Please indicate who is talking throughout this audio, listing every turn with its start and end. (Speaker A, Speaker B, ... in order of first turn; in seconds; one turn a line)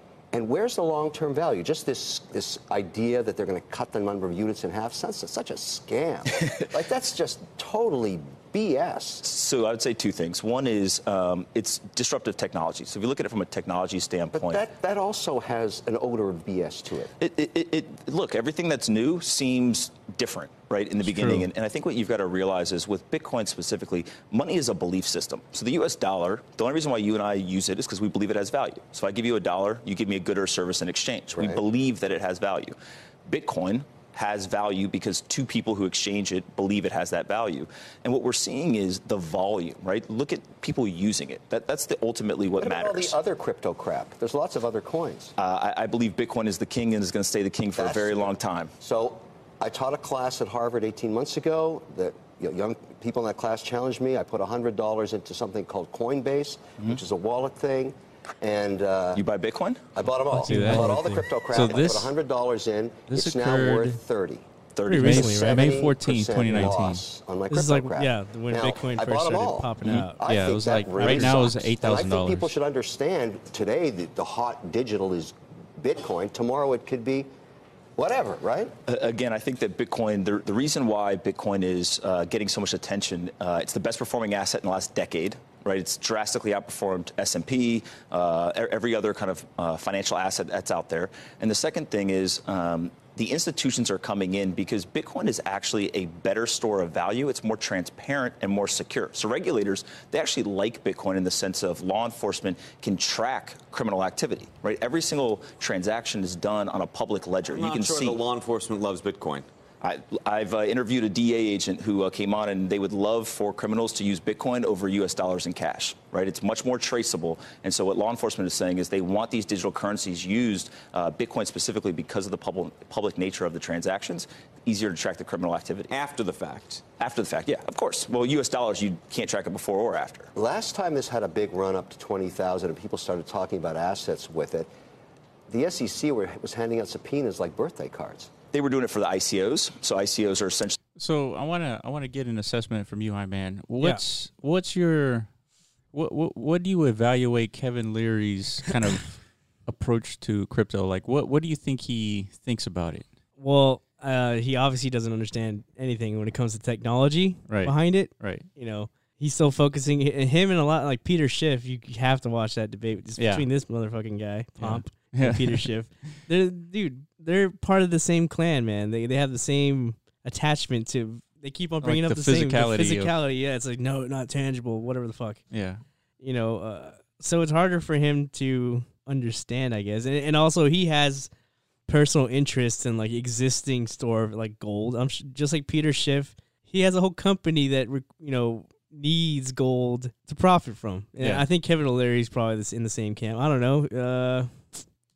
Speaker A: 0.3-9.2
Speaker B: 9.2-14.6
Speaker A: 14.3-17.1
Speaker B: 17.2-32.8
Speaker C: 21.0-21.5
Speaker A: 31.3-31.6
Speaker B: 33.3-43.1
Speaker A: 42.6-45.3
Speaker B: 45.4-48.7
Speaker A: 47.8-59.2
Speaker B: 59.1-60.0
Speaker A: 60.0-64.5
Speaker D: 60.3-62.1
Speaker C: 60.5-61.0
Speaker D: 63.1-64.0
Speaker B: 64.8-65.2
Speaker C: 64.9-65.8
Speaker D: 64.9-67.0
Speaker A: 65.1-77.3
Speaker C: 67.5-70.2
Speaker D: 69.8-72.5
Speaker C: 71.0-71.3
Speaker A: 78.0-78.7
Speaker B: 78.9-108.2
Speaker E: 107.4-109.5
Speaker B: 109.8-125.9
Speaker E: 125.9-126.8
Speaker B: 127.0-130.3
Speaker A: 130.4-134.7
Speaker A: 135.5-138.3
Speaker B: 138.5-140.8
Speaker D: 141.0-145.3
Speaker D: 145.9-153.1
Speaker C: 153.4-175.4
Speaker D: 157.5-158.5
Speaker D: 163.2-163.5
Speaker D: 164.6-165.7
Speaker D: 171.8-173.1
Speaker D: 175.5-175.8
Speaker C: 176.2-181.3
Speaker C: 181.9-194.8
Speaker D: 191.2-191.5